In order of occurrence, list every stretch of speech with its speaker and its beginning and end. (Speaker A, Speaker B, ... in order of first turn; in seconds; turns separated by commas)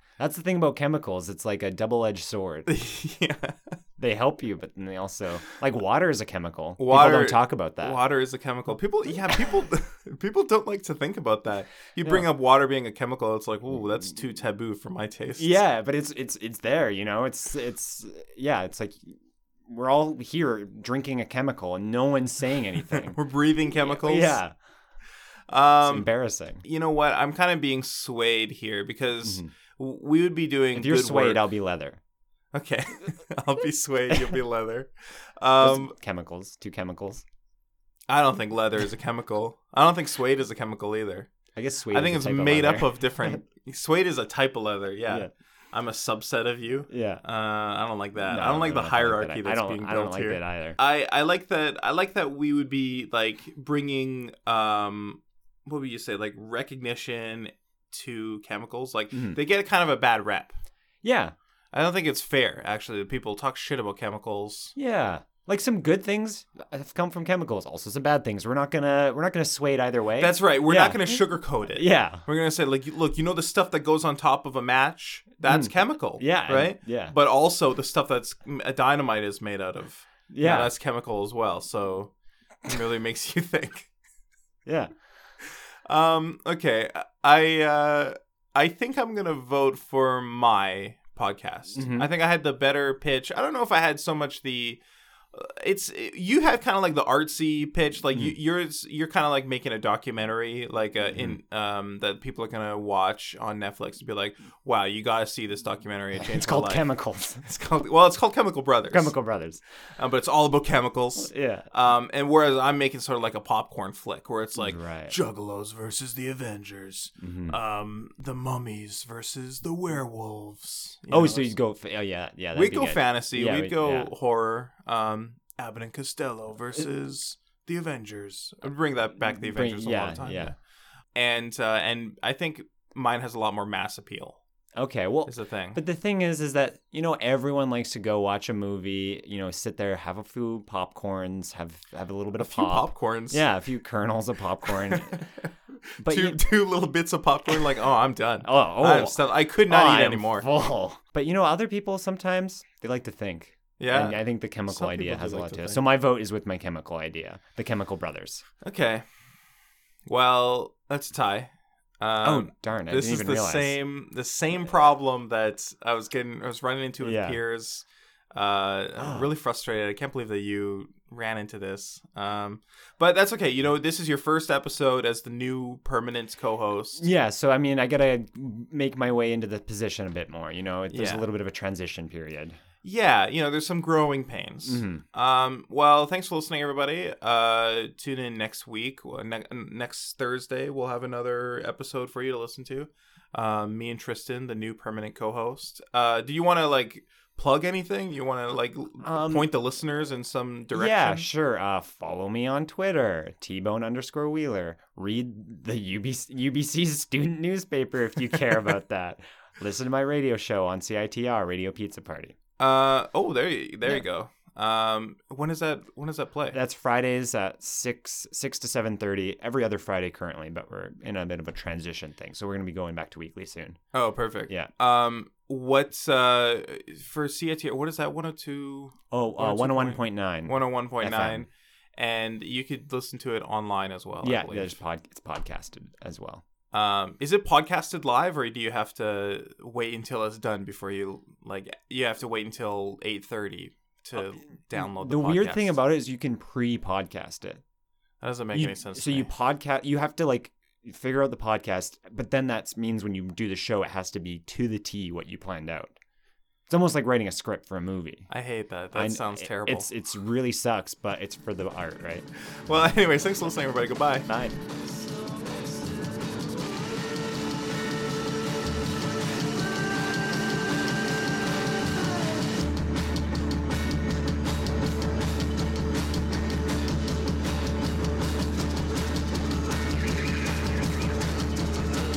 Speaker A: 0.2-2.7, Speaker B: 2.7-3.7, Speaker A: 4.0-8.0, Speaker B: 6.8-15.6, Speaker A: 12.0-12.3, Speaker A: 15.4-23.2, Speaker B: 22.9-24.4, Speaker A: 23.8-24.5, Speaker B: 25.5-26.1, Speaker A: 25.8-26.6, Speaker B: 26.6-31.4, Speaker A: 29.2-29.5, Speaker A: 30.7-32.0, Speaker B: 32.5-35.9, Speaker A: 35.6-37.2, Speaker B: 38.1-41.3, Speaker A: 41.5-43.4, Speaker B: 41.9-60.6, Speaker A: 46.9-47.2, Speaker A: 48.2-50.8, Speaker A: 59.1-59.4, Speaker A: 61.0-61.3, Speaker B: 61.7-64.7, Speaker A: 64.8-72.2, Speaker B: 70.2-82.1, Speaker A: 75.4-77.1, Speaker A: 80.3-80.7, Speaker B: 82.6-83.9, Speaker B: 85.9-94.8, Speaker A: 91.7-92.1, Speaker B: 95.3-106.9, Speaker A: 101.1-101.4, Speaker A: 106.2-107.5, Speaker B: 107.4-109.1, Speaker A: 108.9-109.6, Speaker B: 110.0-121.5, Speaker A: 111.2-111.7, Speaker A: 114.6-115.2, Speaker A: 117.2-117.6, Speaker A: 121.1-124.1, Speaker B: 122.5-130.6, Speaker A: 129.2-130.5, Speaker B: 131.1-134.4, Speaker A: 134.8-145.3, Speaker B: 135.2-135.8, Speaker B: 142.4-143.4, Speaker B: 144.8-145.5, Speaker A: 146.0-146.4, Speaker B: 146.0-150.5, Speaker A: 148.4-158.4, Speaker B: 153.8-155.9, Speaker B: 158.6-159.0, Speaker B: 160.1-161.5, Speaker B: 162.0-177.1, Speaker A: 162.2-163.8, Speaker A: 167.0-167.4, Speaker A: 169.0-169.3, Speaker A: 176.9-182.6, Speaker B: 180.9-181.3, Speaker B: 182.8-201.3, Speaker A: 184.6-185.0, Speaker A: 199.0-199.5, Speaker A: 200.7-212.3, Speaker B: 212.6-216.6, Speaker A: 216.5-223.8, Speaker B: 223.9-234.8, Speaker A: 229.1-231.5, Speaker A: 234.2-236.4, Speaker B: 236.7-245.8, Speaker A: 244.7-247.6, Speaker B: 248.2-249.3, Speaker A: 248.5-256.0, Speaker A: 256.7-258.3, Speaker B: 258.3-259.9, Speaker A: 258.9-262.2, Speaker B: 262.7-264.3, Speaker A: 264.3-264.6